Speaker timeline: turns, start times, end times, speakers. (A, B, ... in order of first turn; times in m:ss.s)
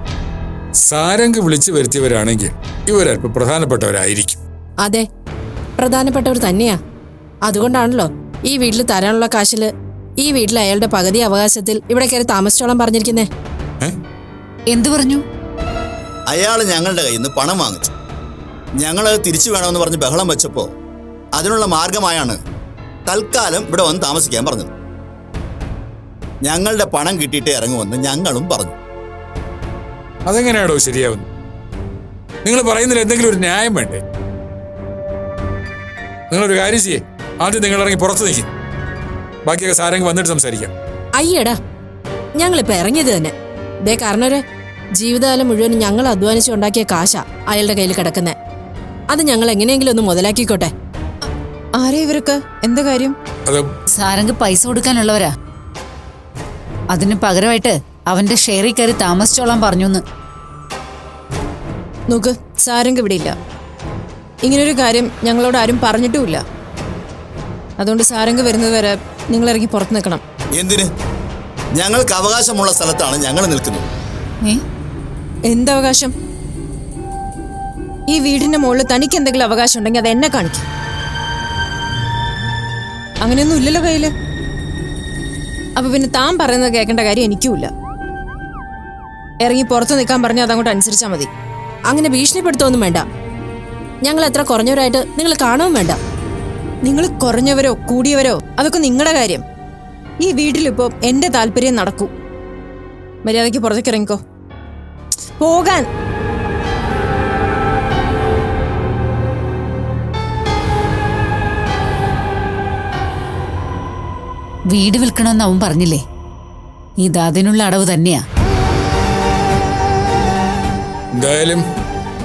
0:00.8-0:04.4 A
0:05.8-0:06.8 B
0:07.4-0:13.3 B
0:14.7-0:15.2 C
0:16.3-0:17.9 D
0:18.8-0:20.7 D
0:21.4-0:22.4 D
0:23.1-0:24.7 D
0:26.5-0:28.7 D
0:30.3-0:31.2 A
0:32.4-0:34.0 A
0:36.3-0:38.4 A
0:39.4-0:40.7 A
0:41.1-0:41.6 B
0:42.4-0:43.3 B
0:43.8-0:44.4 B
0:45.0-0:48.4 B
0:49.1-0:50.7 B
0:51.8-0:53.1 E
0:54.0-0:55.3 C
0:56.9-1:00.0 C
1:02.1-1:03.3 E
1:04.5-1:06.4 E
1:07.8-1:10.2 E
1:10.6-1:10.8 D
1:11.8-1:13.8 D
1:15.5-1:16.1 E
1:18.1-1:20.6 E
1:23.2-1:24.1 E
1:25.8-1:27.7 E
1:29.4-1:31.3 E
1:31.9-1:33.0 B
1:34.0-1:36.0 B
1:36.8-1:39.4 E
1:40.2-1:42.1 E
1:43.2-1:44.2 E
1:45.4-1:45.8 E
1:54.7-1:56.0 C
1:57.0-1:58.2 C
2:01.2-2:01.6 A